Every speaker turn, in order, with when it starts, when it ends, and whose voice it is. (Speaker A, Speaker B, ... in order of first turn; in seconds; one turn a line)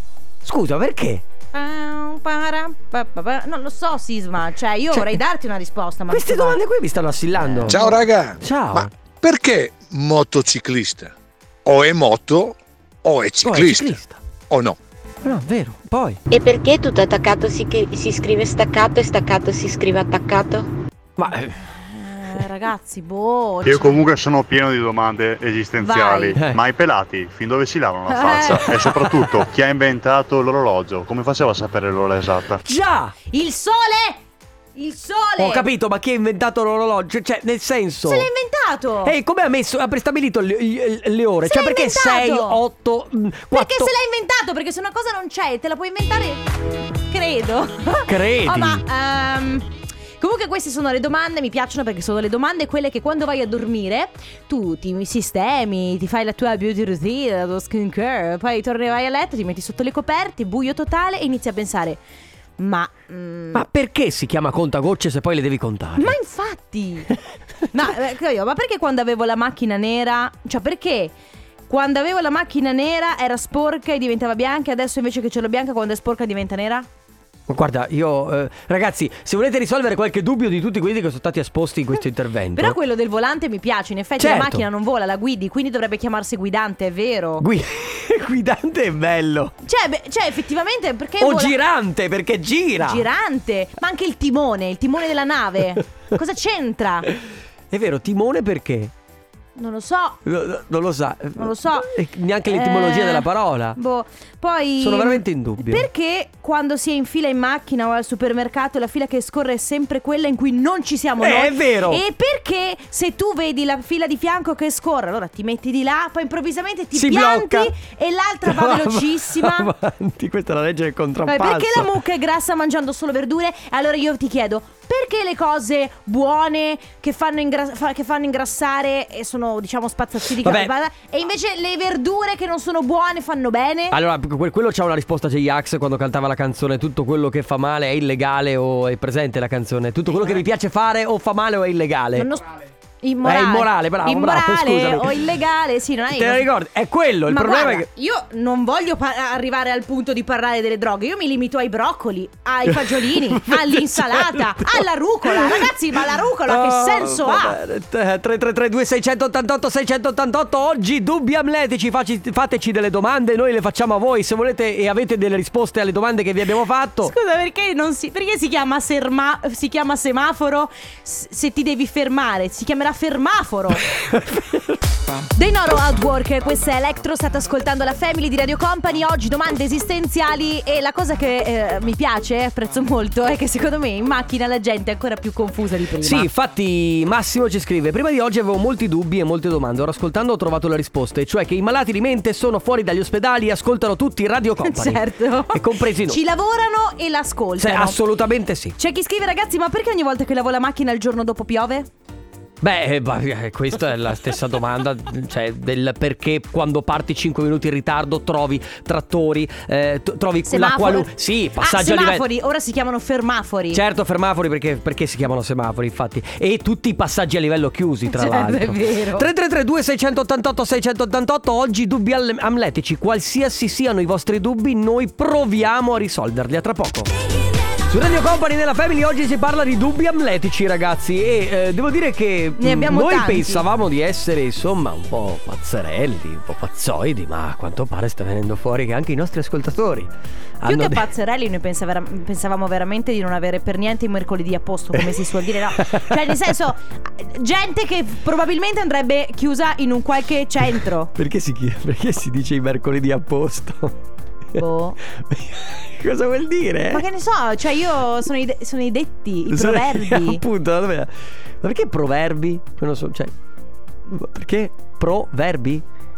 Speaker A: 0.4-1.2
Speaker B: 1.5-6.6
Speaker A: 4.9-5.2
Speaker A: 6.1-7.8
Speaker B: 7.5-8.0
Speaker C: 7.7-11.1
Speaker A: 8.4-8.9
Speaker C: 11.6-13.9
Speaker A: 13.4-14.2
Speaker C: 14.5-14.8
Speaker A: 15.2-16.2
Speaker D: 16.3-20.7
Speaker A: 21.2-21.6
Speaker B: 21.7-24.0
Speaker E: 23.7-32.6
Speaker B: 25.8-26.4
Speaker A: 26.3-26.6
Speaker B: 28.1-29.2
Speaker A: 32.6-33.1
Speaker B: 33.3-34.2
Speaker B: 34.7-35.7
Speaker A: 35.4-38.3
Speaker B: 38.0-39.1
Speaker A: 39.0-43.9
Speaker B: 41.5-42.6
Speaker B: 43.5-46.4
Speaker B: 47.1-49.6
Speaker A: 48.1-48.8
Speaker B: 50.2-62.0
Speaker B: 62.6-63.6
Speaker A: 63.5-66.2
Speaker B: 66.0-67.1
Speaker B: 67.7-71.1
Speaker B: 71.7-76.9
Speaker A: 77.5-82.8
Speaker B: 82.5-87.5
Speaker A: 84.2-84.6
Speaker A: 87.4-89.5
Speaker B: 89.6-91.5
Speaker A: 91.2-93.0
Speaker B: 92.8-97.1
Speaker A: 97.7-98.9
Speaker B: 99.5-100.2
Speaker A: 100.2-103.8
Speaker B: 101.4-101.9
Speaker B: 102.5-119.7
Speaker A: 104.8-105.8
Speaker A: 111.2-112.0
Speaker A: 116.9-117.7
Speaker A: 118.4-121.9
Speaker B: 121.3-133.9
Speaker A: 130.4-130.7
Speaker A: 133.9-142.3
Speaker B: 142.1-146.4
Speaker A: 143.2-145.1
Speaker A: 146.1-147.8
Speaker B: 147.3-157.6
Speaker A: 152.7-155.7
Speaker A: 156.5-167.1
Speaker B: 167.1-173.8
Speaker A: 173.9-174.8
Speaker B: 175.3-186.3
Speaker A: 186.0-196.2
Speaker B: 194.6-198.0
Speaker A: 197.6-198.8
Speaker B: 198.8-201.9
Speaker A: 202.6-212.2
Speaker B: 210.5-213.8
Speaker A: 213.7-227.1
Speaker B: 218.1-219.2
Speaker A: 227.9-240.1
Speaker B: 232.6-233.6
Speaker A: 240.6-241.1
Speaker B: 240.6-251.1
Speaker A: 244.9-246.4
Speaker A: 251.1-253.9
Speaker B: 254.6-255.0
Speaker A: 255.2-257.0
Speaker B: 256.9-260.4
Speaker A: 259.5-263.3
Speaker A: 264.1-265.8